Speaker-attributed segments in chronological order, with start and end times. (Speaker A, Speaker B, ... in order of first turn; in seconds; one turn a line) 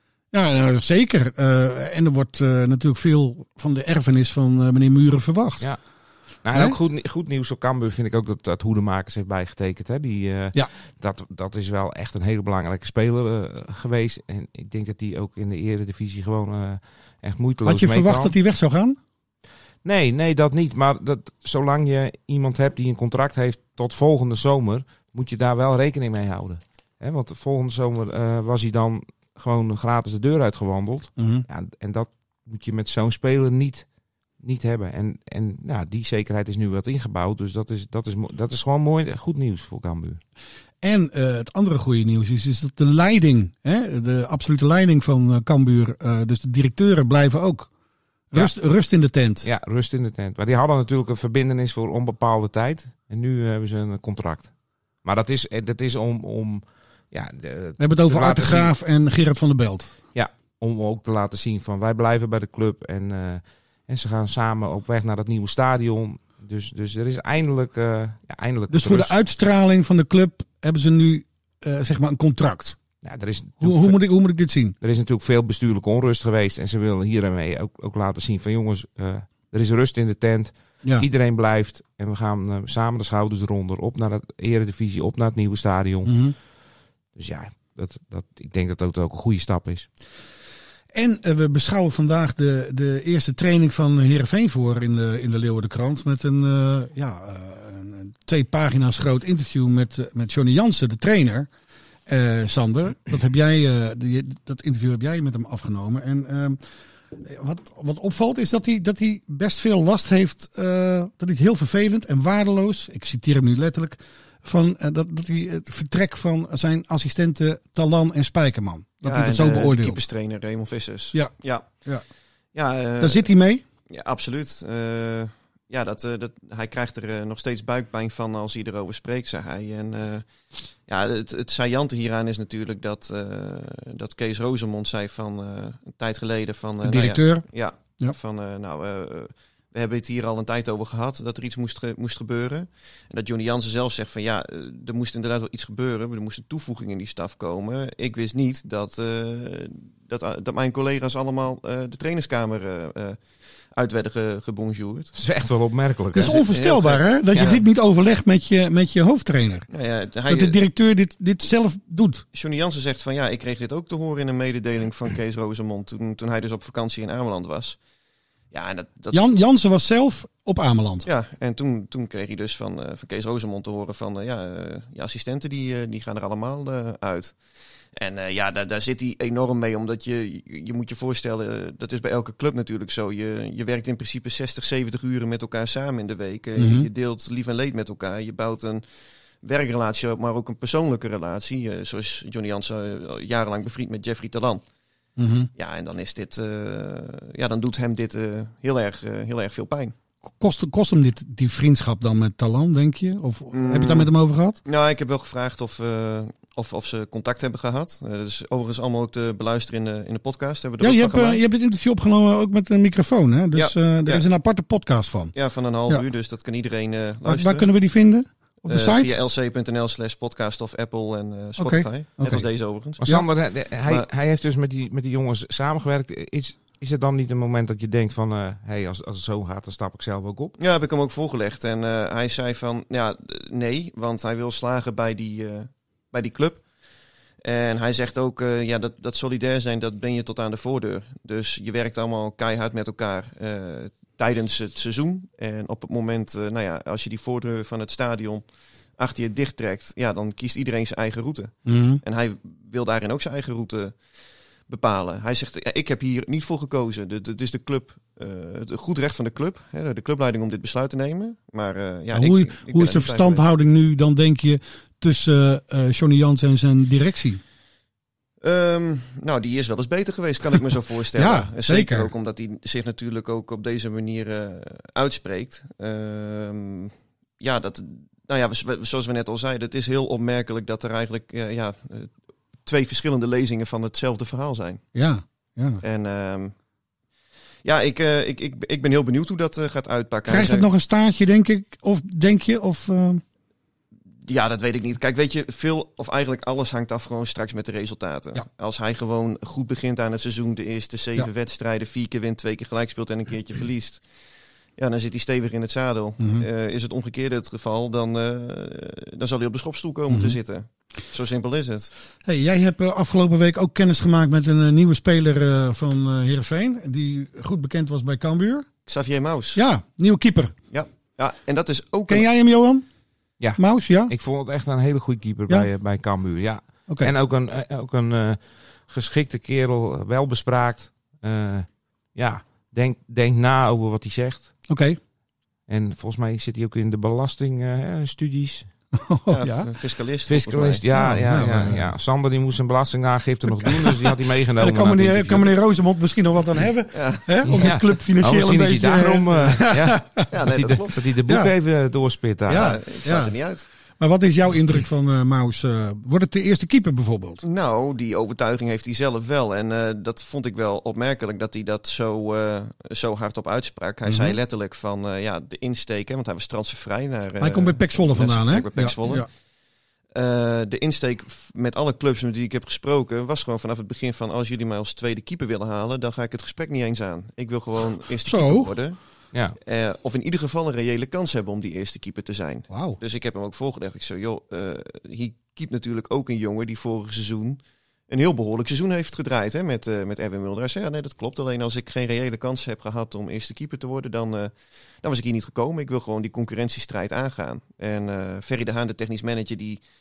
Speaker A: 0.3-5.7
Speaker B: 6.4-18.3
Speaker A: 17.6-19.0
Speaker B: 19.8-33.9
Speaker A: 31.2-31.4
Speaker B: 34.4-40.2
Speaker A: 40.8-47.7
Speaker A: 48.3-49.5
Speaker B: 49.4-54.5
Speaker B: 55.0-58.7
Speaker A: 57.8-59.9
Speaker B: 60.1-69.2
Speaker A: 68.7-72.8
Speaker B: 73.0-74.0
Speaker A: 73.6-74.7
Speaker B: 74.8-86.2
Speaker A: 86.0-86.3
Speaker B: 87.2-89.9
Speaker A: 90.9-101.5
Speaker A: 102.1-106.6
Speaker A: 107.1-120.0
Speaker C: 119.0-121.7
Speaker A: 121.1-122.0
Speaker C: 122.5-123.3
Speaker A: 123.0-123.6
Speaker C: 123.9-130.3
Speaker C: 130.9-153.2
Speaker A: 136.8-137.4
Speaker C: 153.7-155.1
Speaker B: 155.1-156.4
Speaker A: 156.1-159.7
Speaker C: 156.2-157.6
Speaker C: 159.7-160.6
Speaker A: 160.3-162.2
Speaker C: 162.3-167.8
Speaker C: 168.5-169.3
Speaker A: 169.1-171.1
Speaker C: 171.0-177.3
Speaker C: 177.9-188.8
Speaker A: 186.6-186.9
Speaker C: 189.4-194.6
Speaker A: 195.2-195.5
Speaker C: 195.6-199.9
Speaker A: 200.4-204.6
Speaker C: 203.5-204.1
Speaker C: 204.6-211.4
Speaker A: 210.8-215.3
Speaker C: 213.5-214.2
Speaker C: 215.3-217.7
Speaker A: 217.2-219.2
Speaker C: 218.7-223.0
Speaker A: 221.6-222.5
Speaker B: 223.0-230.6
Speaker C: 230.6-236.6
Speaker C: 237.4-248.4
Speaker C: 249.0-253.9
Speaker A: 251.7-252.0
Speaker C: 254.7-263.4
Speaker A: 262.1-267.4
Speaker C: 268.4-282.1
Speaker A: 271.2-272.1
Speaker C: 282.6-284.8
Speaker A: 284.9-285.8
Speaker C: 285.8-286.5
Speaker C: 287.6-290.7
Speaker A: 290.3-293.2
Speaker C: 294.2-304.0
Speaker C: 304.8-311.9
Speaker A: 306.2-306.4
Speaker A: 310.1-310.4
Speaker A: 312.2-318.7
Speaker C: 318.9-319.6
Speaker A: 319.5-320.5
Speaker C: 320.7-322.3
Speaker A: 322.1-322.8
Speaker B: 323.4-334.5
Speaker A: 323.6-324.1
Speaker A: 334.7-335.0
Speaker B: 335.7-338.7
Speaker A: 338.9-339.7
Speaker C: 339.3-340.8
Speaker B: 340.2-345.5
Speaker A: 340.9-341.9
Speaker A: 343.6-350.3
Speaker C: 346.9-347.4
Speaker B: 347.4-352.8
Speaker C: 350.3-351.1
Speaker A: 351.2-351.5
Speaker A: 352.5-353.3
Speaker C: 352.5-353.7
Speaker A: 354.0-357.4
Speaker C: 357.4-369.2
Speaker A: 364.1-364.4
Speaker A: 367.4-369.2
Speaker C: 370.1-379.0
Speaker A: 378.2-378.7
Speaker C: 379.6-399.8
Speaker A: 382.7-383.0